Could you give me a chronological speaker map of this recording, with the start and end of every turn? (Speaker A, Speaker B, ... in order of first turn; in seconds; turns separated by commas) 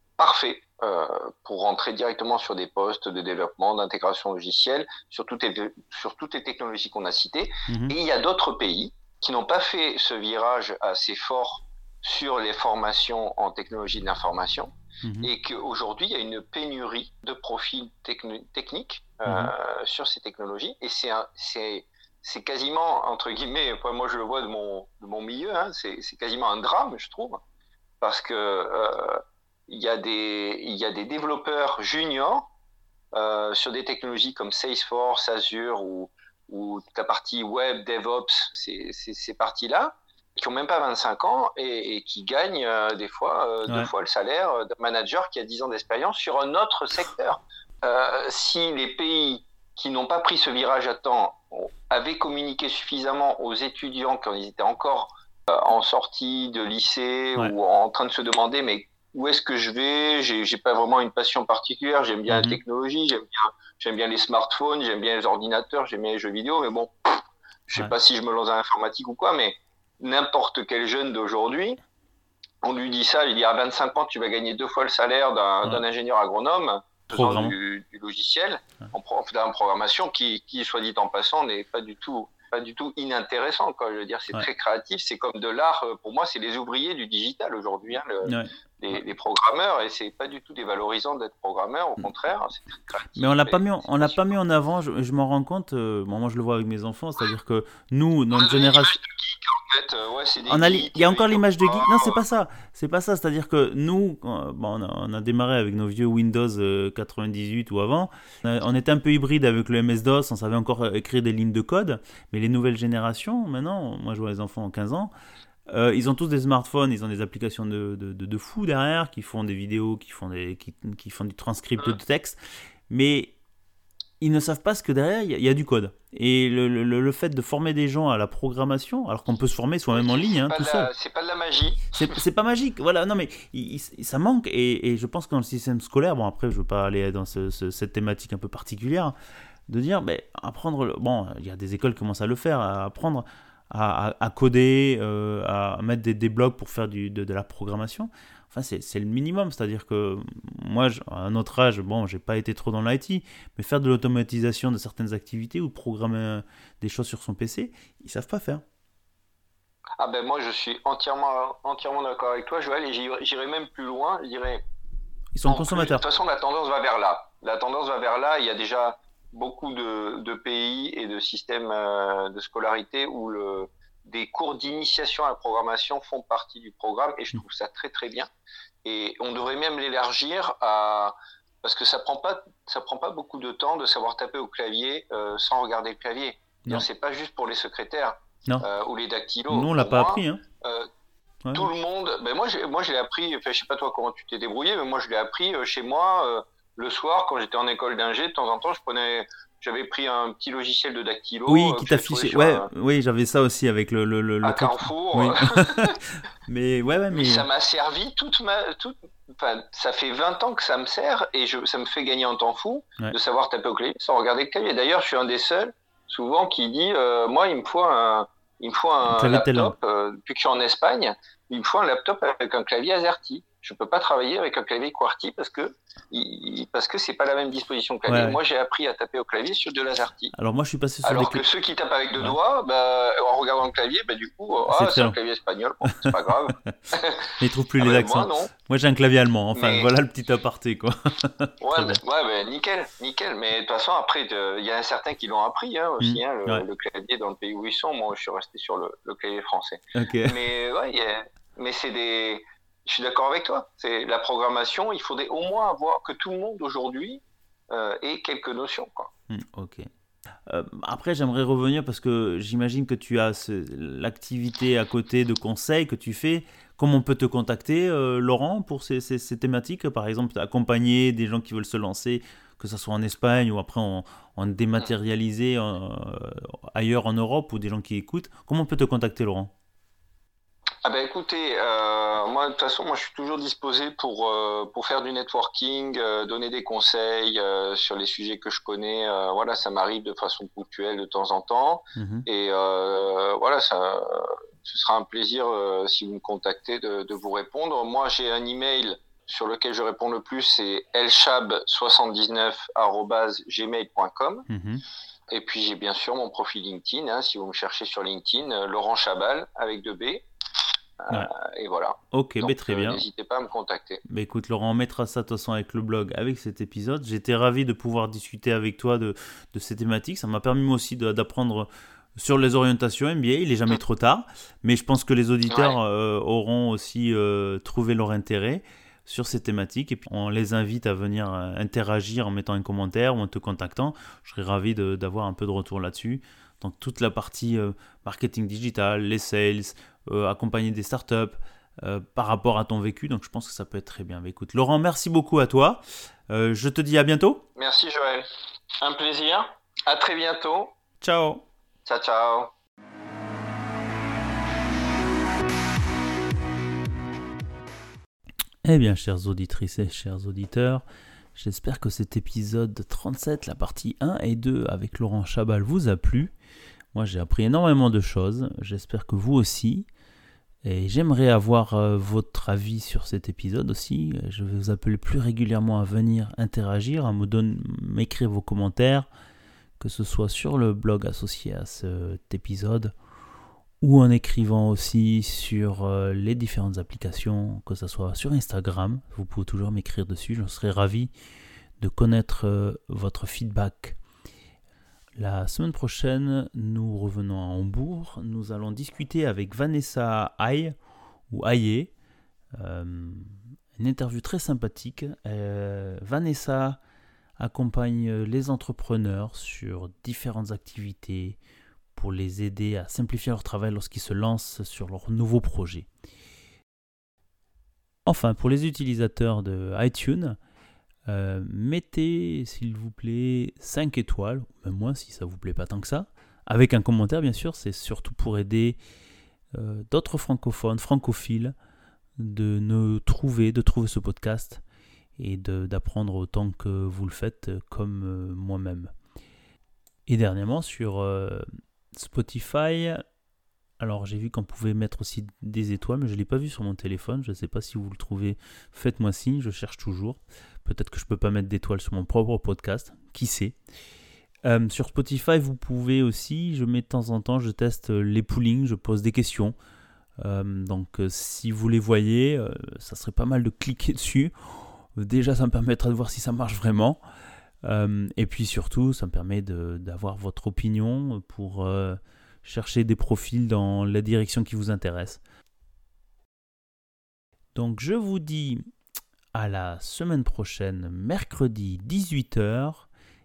Speaker A: 0.2-27.4, Speaker B: 7.7-8.0, Speaker B: 15.0-15.3, Speaker B: 19.3-19.5, Speaker A: 28.0-32.4, Speaker A: 33.1-66.9, Speaker B: 62.3-62.6, Speaker A: 67.7-71.8, Speaker A: 72.6-94.3, Speaker B: 77.1-77.6, Speaker B: 88.2-89.0, Speaker B: 93.2-99.0, Speaker A: 98.3-102.2, Speaker B: 100.5-115.1, Speaker B: 115.7-123.3, Speaker B: 124.2-130.9, Speaker A: 129.9-132.2, Speaker B: 131.9-139.2, Speaker B: 139.7-158.6, Speaker A: 160.0-164.6, Speaker B: 165.3-166.0, Speaker A: 165.4-178.3, Speaker A: 178.8-190.9, Speaker B: 189.5-190.4, Speaker A: 191.5-202.7, Speaker B: 201.5-207.5, Speaker A: 204.4-206.0, Speaker A: 207.1-230.3, Speaker B: 219.1-219.7, Speaker B: 228.1-228.4, Speaker B: 230.3-231.4, Speaker A: 231.0-238.5, Speaker B: 234.7-235.2, Speaker B: 237.3-242.0, Speaker A: 239.6-239.9, Speaker A: 241.6-259.1, Speaker B: 246.0-246.7, Speaker B: 249.9-250.4, Speaker B: 259.3-259.9, Speaker B: 260.5-279.5, Speaker A: 280.8-304.5, Speaker B: 292.0-292.3, Speaker B: 304.5-304.8, Speaker A: 305.3-310.3, Speaker A: 311.0-314.0, Speaker B: 312.1-313.0, Speaker B: 314.1-347.4, Speaker A: 325.5-325.8, Speaker A: 347.6-348.3, Speaker A: 348.8-350.7, Speaker B: 351.0-351.4, Speaker A: 351.9-352.5, Speaker B: 358.6-360.8, Speaker B: 361.4-366.3, Speaker B: 366.9-369.9, Speaker B: 370.6-379.1, Speaker B: 379.8-382.9, Speaker B: 383.8-391.1, Speaker B: 391.8-394.0, Speaker B: 395.2-400.7, Speaker B: 401.3-401.9, Speaker B: 402.6-406.8, Speaker B: 407.4-411.4, Speaker B: 411.9-415.9, Speaker B: 418.1-420.4, Speaker B: 421.1-428.8, Speaker B: 429.5-431.6, Speaker B: 432.2-434.6, Speaker B: 435.2-438.9, Speaker B: 440.1-443.0, Speaker B: 443.8-453.6, Speaker B: 454.4-459.6, Speaker B: 460.2-467.0, Speaker B: 467.6-475.2, Speaker B: 477.6-478.6, Speaker B: 479.3-482.9